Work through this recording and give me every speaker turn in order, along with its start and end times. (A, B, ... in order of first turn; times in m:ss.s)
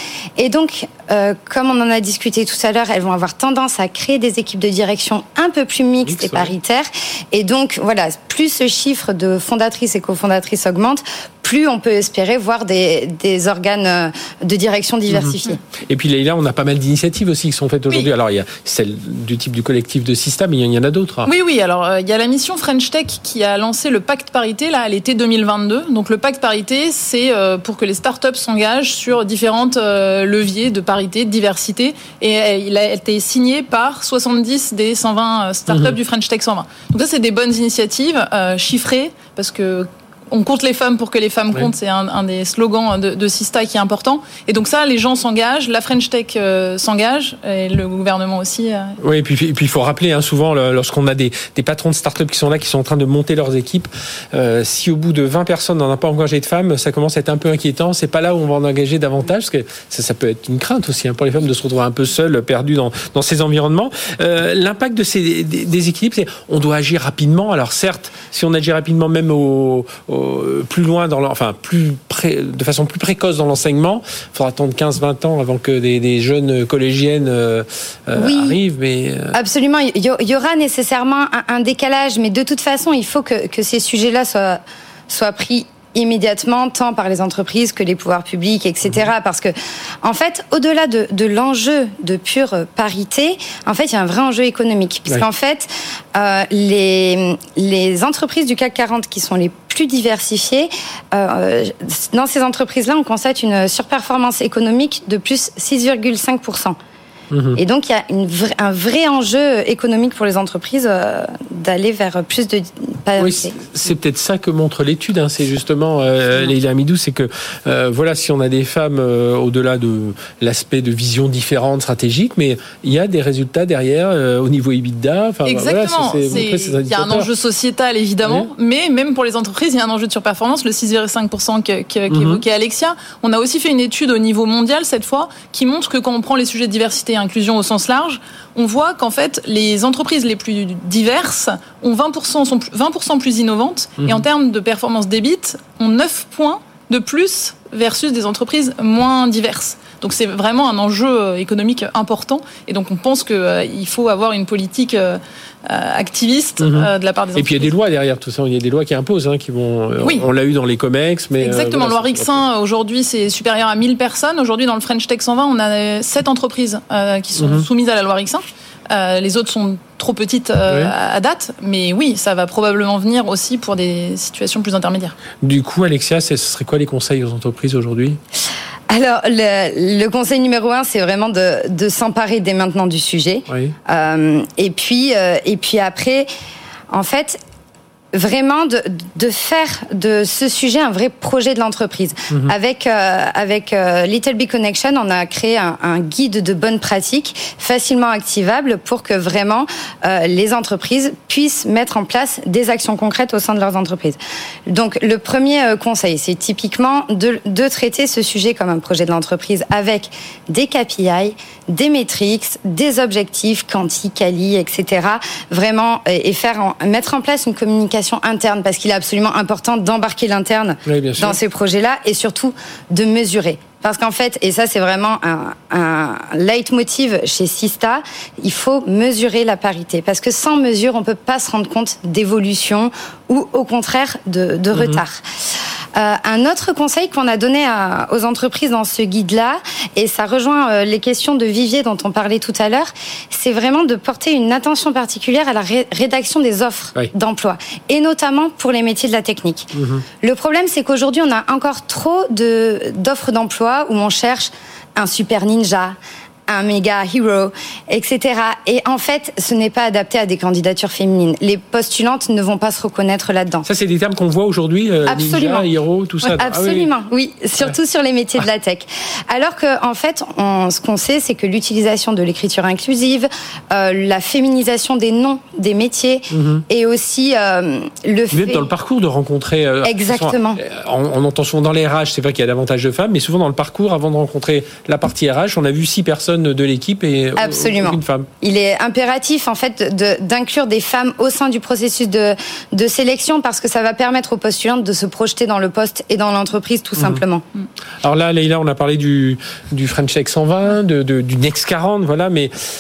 0:00.4-0:15.6 A
0:06.0-0:06.5 B
0:15.1-0:21.3 B
0:21.2-0:49.0 C
0:49.0-1:19.4 B
1:18.2-1:18.6 A
1:19.3-1:46.8 A
1:47.3-1:47.6 B
1:47.6-1:53.6 A
1:53.2-2:07.3 B
2:05.4-2:37.7 C
2:08.2-2:08.5 B
2:12.1-2:12.4 B
2:36.6-2:42.4 B
2:40.0-2:40.3 C
2:41.4-2:55.2 C
2:47.4-2:47.7 B
2:50.7-2:50.9 B
2:55.4-2:58.2 B
2:58.9-3:06.3 A
3:06.9-3:07.4 A
3:08.1-3:55.2 A
3:40.9-3:41.4 B
3:54.7-3:55.0 B
3:56.0-4:16.0 A
4:09.7-4:10.0 B
4:16.5-4:23.7 A
4:23.6-4:26.9 B
4:25.1-4:25.7 A
4:26.4-4:38.7 A
4:36.3-4:36.6 B
4:38.3-4:48.3 B
4:39.8-4:40.6 A
4:47.4-4:57.4 A
4:57.0-4:57.2 B
4:58.0-5:02.5 B